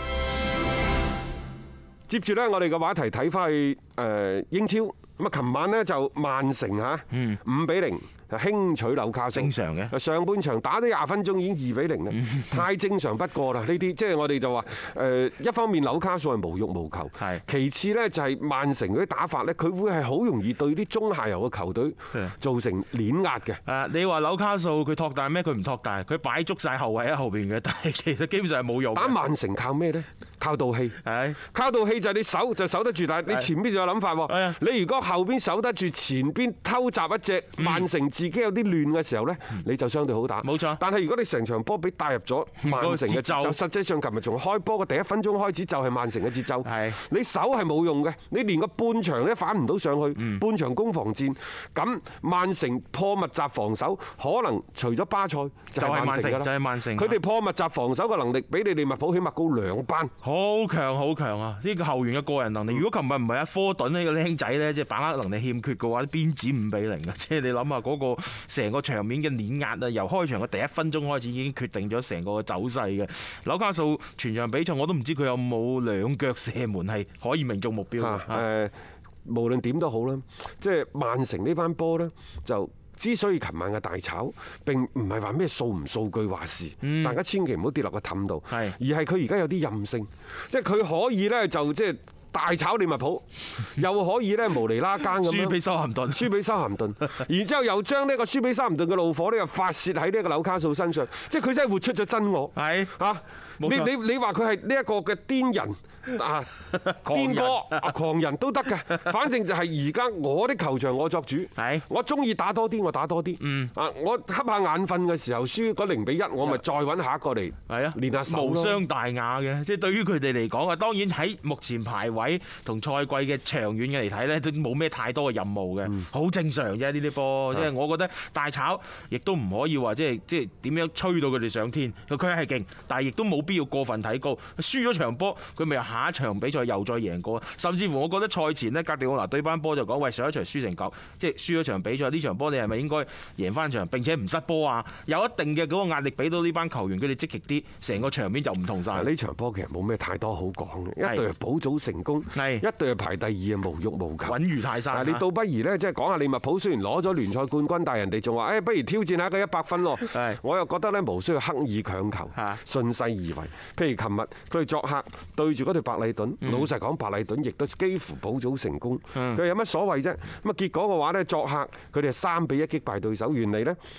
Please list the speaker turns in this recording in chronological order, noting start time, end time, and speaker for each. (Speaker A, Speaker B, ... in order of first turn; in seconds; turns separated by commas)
Speaker A: 2.1-23.6, Speaker B: 7.1-7.4, Speaker B: 9.3-9.9, Speaker B: 12.1-12.6, Speaker B: 23.6-29.2, Speaker A: 28.9-60.1, Speaker B: 31.0-31.4, Speaker B: 34.3-34.6, Speaker B: 37.6-37.9, Speaker B: 40.4-40.8, Speaker B: 42.6-43.6, Speaker B: 46.6-47.0, Speaker B: 50.1-50.4, Speaker B: 55.8-57.2, Speaker B: 60.2-78.4, Speaker A: 78.0-78.7, Speaker A: 79.2-95.6, Speaker B: 86.8-87.2, Speaker B: 88.5-88.8, Speaker B: 95.0-96.3, Speaker A: 96.1-118.8, Speaker B: 102.5-102.9, Speaker B: 103.6-103.9, Speaker B: 106.7-107.9, Speaker B: 111.6-111.8, Speaker B: 113.4-113.7, Speaker B: 117.7-149.1, Speaker A: 148.9-173.8, Speaker B: 152.3-152.6, Speaker B: 154.2-155.2, Speaker B: 160.1-160.4, Speaker B: 162.3-162.6, Speaker B: 166.4-166.7, Speaker B: 169.1-169.4